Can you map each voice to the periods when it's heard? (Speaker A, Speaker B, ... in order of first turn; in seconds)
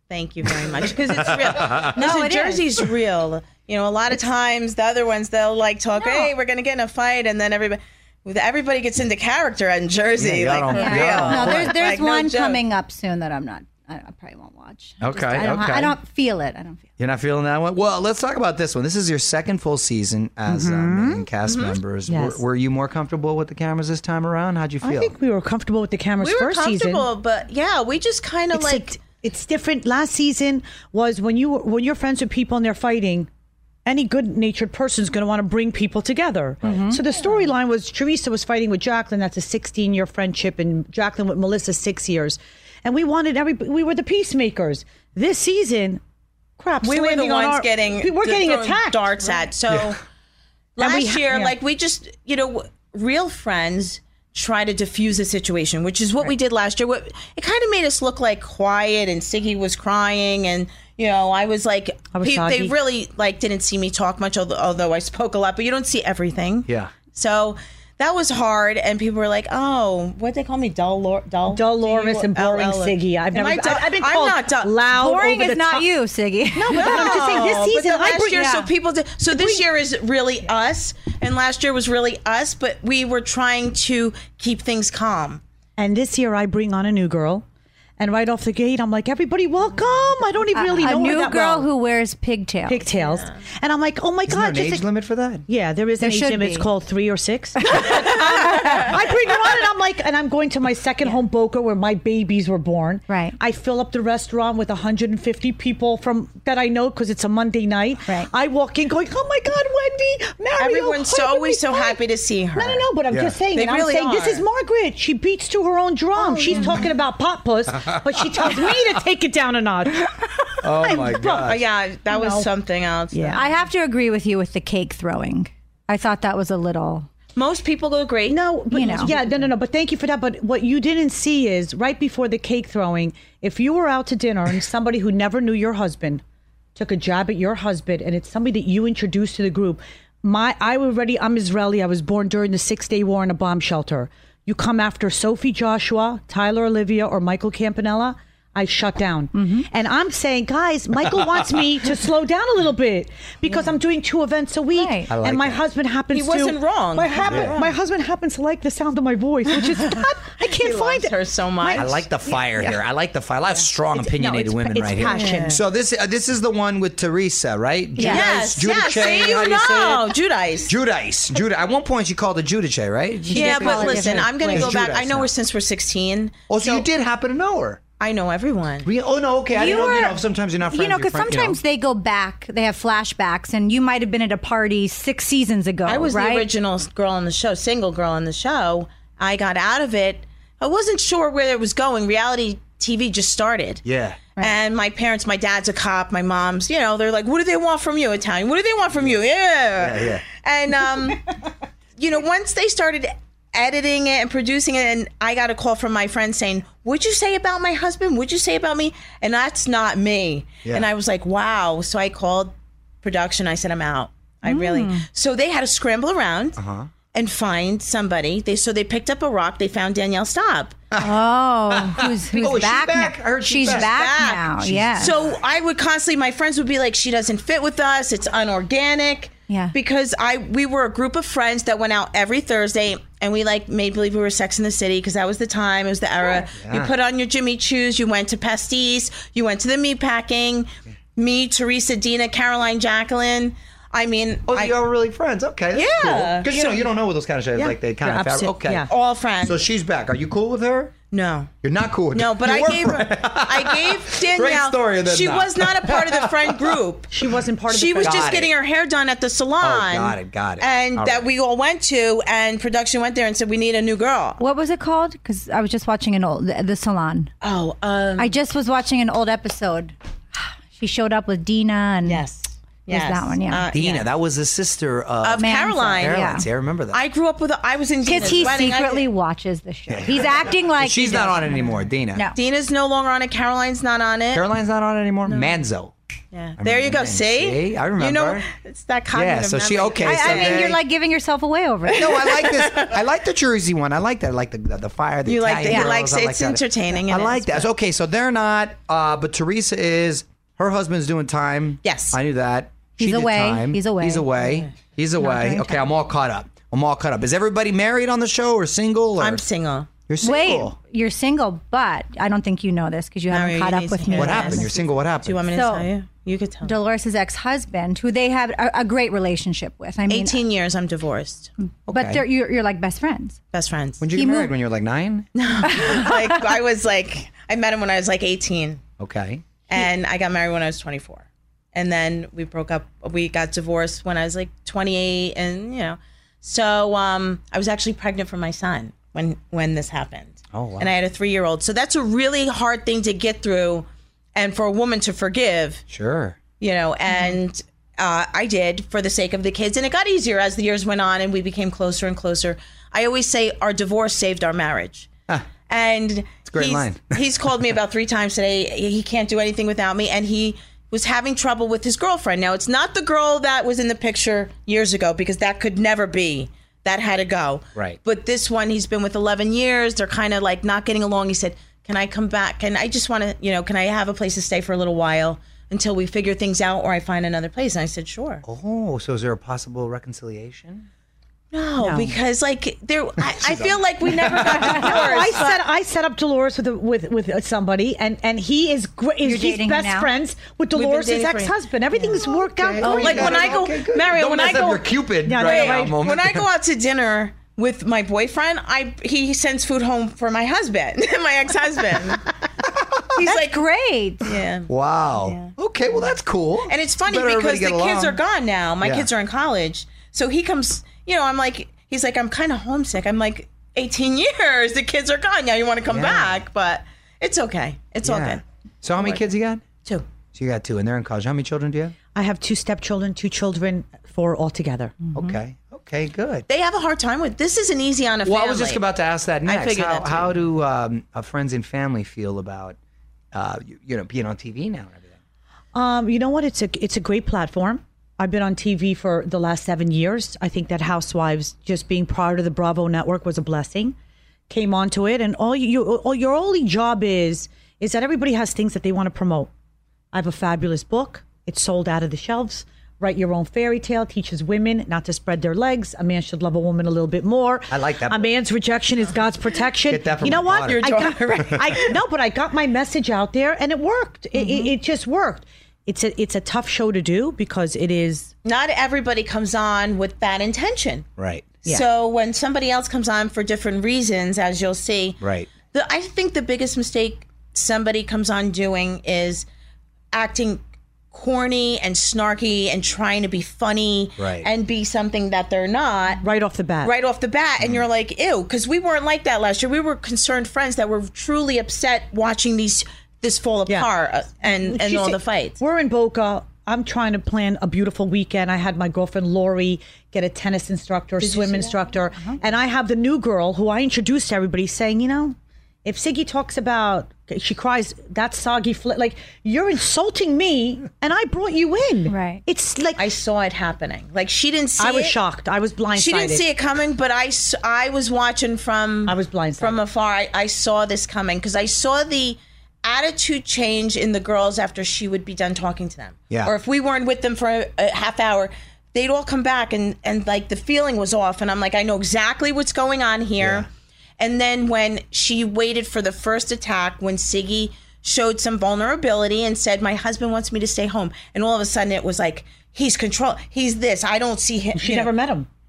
Speaker A: 0.1-12.6, 21.5-21.8, 26.2-29.0, 46.8-50.0, 50.8-75.8, 76.6-85.4, 110.6-112.9, 113.5-114.4, 121.2-123.4, 127.3-128.6, 156.1-157.7, 160.4-162.8, 165.1-165.6, 168.0-170.8, 173.3-176.9, 178.0-178.9, 179.6-180.0, 185.8-193.8, 194.4-201.2, 202.0-216.6, 217.1-220.8, 223.6-244.8, 245.7-246.9, 248.0-249.6, 251.1-251.5, 252.1-257.1, 257.7-264.4, 267.4-268.4, 272.0-274.1, 275.2-276.3, 276.9-279.1, 282.3-284.4, 285.2-285.6, 286.3-290.8, 291.9-293.0, 295.2-297.6, 301.8-302.2, 309.2-309.9, 313.3-316.8, 320.1-321.5, 323.5-324.1, 325.3-328.8, 329.7-345.8, 346.6-355.1, 355.7-378.4, 381.5-385.6, 390.8-391.5, 392.9-402.3, 403.1-403.6, 404.2-405.5, 406.7-418.4, 419.0-419.3, 426.5-430.4, 460.7-462.0, 464.4-464.7, 468.4-471.1, 471.6-479.5, 480.1-486.2, 486.8-495.6, 501.2-501.9, 513.0-515.2, 515.9-533.7, 534.2-545.1
Speaker B: 1.1-1.9, 10.2-11.8, 15.0-16.0, 17.0-25.2, 66.7-66.9, 94.3-95.5, 113.1-113.3, 120.6-121.6, 155.1-155.6, 157.2-157.6, 161.7-170.1, 170.7-175.3, 176.5-177.8, 178.8-181.6, 193.8-194.2, 199.8-200.2, 216.6-216.9, 221.7-223.9, 224.6-225.3, 236.6-236.9, 244.5-250.9, 251.6-256.8, 258.0-258.5, 259.6-261.2, 273.7-277.0, 278.2-278.5, 279.9-282.3, 284.3-285.9, 286.6-288.4, 289.1-290.8, 291.9-309.4, 310.1-310.8, 314.1-315.4, 321.9-322.2, 324.0-325.3, 329.0-329.4, 340.5-340.9, 345.9-346.4, 356.4-357.2, 378.4-380.9, 383.2-385.1, 392.4-396.4, 404.7-408.2, 408.8-409.1, 415.9-416.4, 418.0-419.6, 420.3-421.9, 425.1-426.4, 428.2-432.8, 433.3-435.1, 457.7-458.3, 459.9-461.6, 471.2-471.5, 475.2-475.5, 484.2-484.5, 487.6-487.9, 533.4-533.7
Speaker C: 1.8-2.7, 5.9-6.3, 10.7-16.9, 36.6-37.0, 75.2-77.1, 90.5-93.0, 96.0-96.7, 103.1-103.3, 108.0-108.3, 116.2-116.9, 123.3-127.1, 128.8-129.2, 149.4-149.6, 153.5-153.8, 154.7-155.1, 168.0-168.3, 173.2-174.8, 179.5-186.5, 214.4-215.1, 221.0-225.2, 229.5-229.7, 264.4-267.3, 268.2-269.9, 270.7-272.2, 272.9-273.7, 275.4-276.5, 278.0-282.4, 290.0-292.1, 295.7-295.9, 303.0-304.3, 305.2-305.9, 310.2-314.7, 315.5-315.9, 316.6-320.4, 321.9-323.4, 324.1-324.5, 325.6-326.4, 389.2-390.1, 392.8-393.1, 403.2-404.3, 512.1-512.4
Speaker D: 20.5-21.3, 22.1-22.4, 24.8-27.1, 28.5-33.3, 33.8-46.0, 46.6-49.4, 50.8-51.5, 62.1-62.7, 71.5-75.9, 76.5-78.7, 79.3-79.7, 85.8-87.4, 88.0-91.7, 92.7-94.9, 95.4-112.0, 112.5-121.6, 122.1-122.5, 123.1-123.5, 128.3-136.2, 136.8-161.9, 163.9-165.6, 173.3-174.3, 248.6-248.9, 257.1-258.4, 381.8-382.1, 384.6-393.6, 395.2-396.0, 422.1-425.0, 435.7-444.0, 444.5-449.5, 450.1-468.3, 486.2-486.9, 494.4-513.1, 514.8-516.4, 519.0-519.8, 544.8-545.5